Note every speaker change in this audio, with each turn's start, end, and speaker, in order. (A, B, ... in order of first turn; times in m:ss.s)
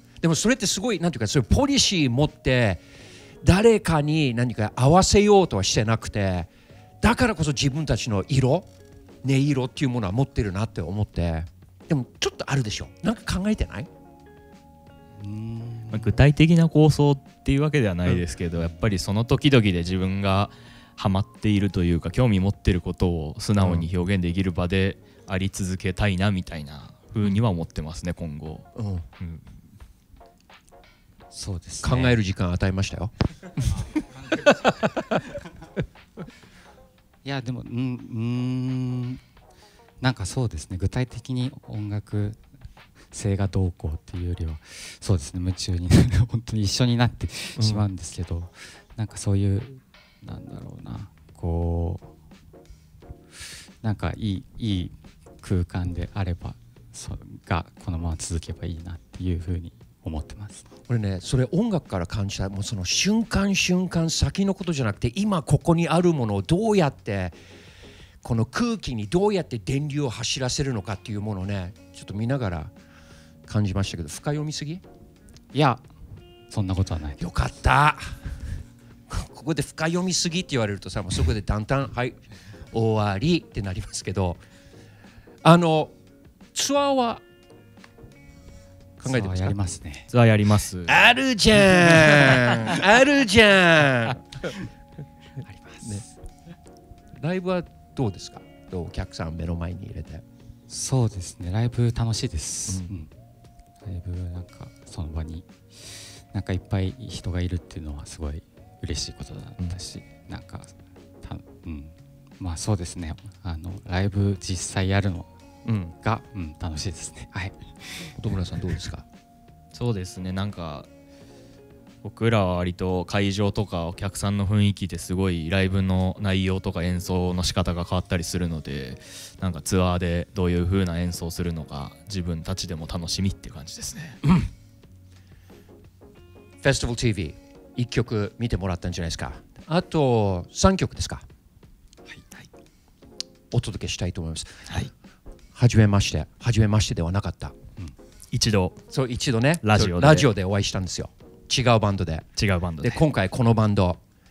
0:00.2-0:02.8 A
0:03.4-0:08.7 A
0:09.2-0:13.9 A
0:15.2-0:16.2 B
0:15.9-0:29.4 C
0:23.6-0:23.9 A
0:28.8-0:29.0 A
0:31.3-0:32.2 B
0:31.8-0:33.7 A
0:34.3-0:35.1 A
0:37.2-0:39.2 B
0:40.0-0:42.4 B
0:43.1-0:52.1 B
0:47.6-0:47.9 A
0:53.8-1:00.7 B
1:00.9-1:07.4 A
1:08.2-1:12.7 A
1:13.5-1:14.8 A
1:15.5-1:15.9 B
1:16.5-1:17.3 B
1:17.2-1:18.1 A
1:19.1-1:24.4 A
1:25.4-1:25.9 A
1:26.5-1:27.2 A
1:29.0-1:30.1 B
1:29.0-1:29.6 A
1:30.1-1:31.0 C
1:30.9-1:34.5 A
1:32.1-1:32.4 C
1:35.4-1:36.2 B
1:37.2-1:40.2 A
1:40.7-1:43.1 B
1:43.8-1:55.3 B
1:55.6-1:56.0 A
1:56.0-1:58.1 B
1:58.2-1:59.0 A
1:59.7-2:00.9 C
2:02.0-2:14.2 C
2:16.6-2:21.2 A
2:23.5-2:24.8 A
2:25.5-2:27.6 A
2:28.3-2:28.8 C
2:28.9-2:32.3 A
2:29.6-2:30.3 C
2:32.4-2:33.0 C
2:32.8-2:34.0 A